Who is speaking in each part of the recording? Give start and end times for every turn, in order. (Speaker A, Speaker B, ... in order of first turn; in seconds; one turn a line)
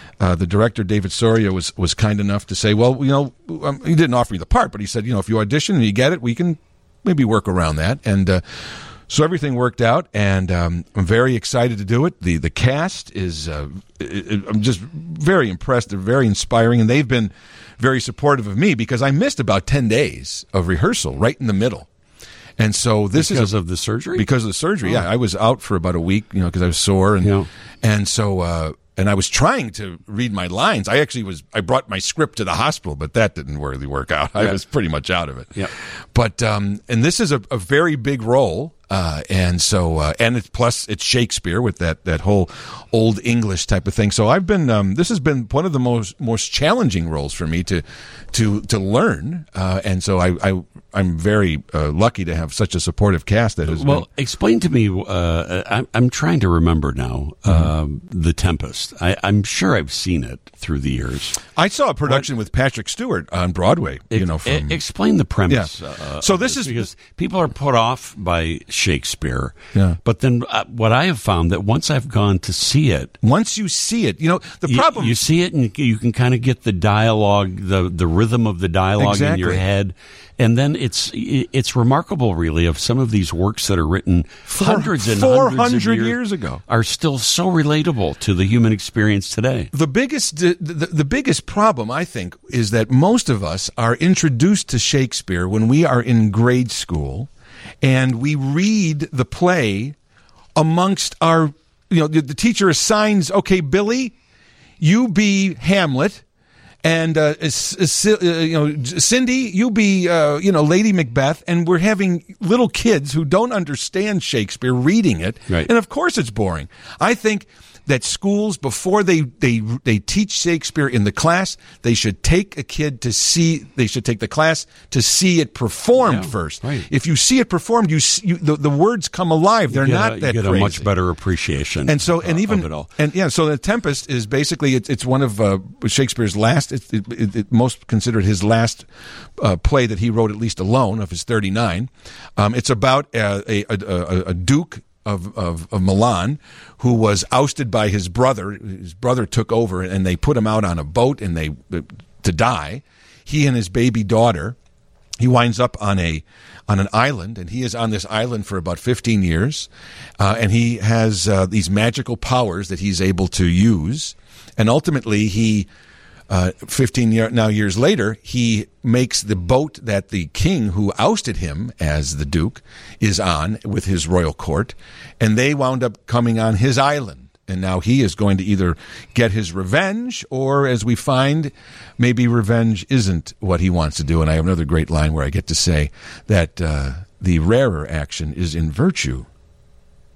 Speaker A: 0.2-8.4
Speaker A: 9.1-21.9
Speaker A: 22.6-23.5
Speaker B: 23.1-24.2
Speaker A: 24.1-54.0
Speaker B: 27.2-27.5
Speaker B: 53.7-61.4
Speaker A: 61.5-64.8
Speaker B: 64.1-73.2
Speaker A: 65.5-66.9
Speaker A: 73.2-75.2
Speaker B: 74.7-86.2
Speaker A: 79.0-79.6
Speaker A: 84.5-86.6
Speaker B: 86.7-89.7
Speaker A: 89.7-97.3
Speaker A: 97.8-99.9
Speaker A: 100.5-104.1
Speaker A: 104.8-106.2
Speaker A: 106.8-130.9
Speaker B: 126.0-126.9
Speaker B: 129.7-132.9
Speaker A: 131.9-154.6
Speaker A: 155.2-165.7
Speaker A: 166.3-189.2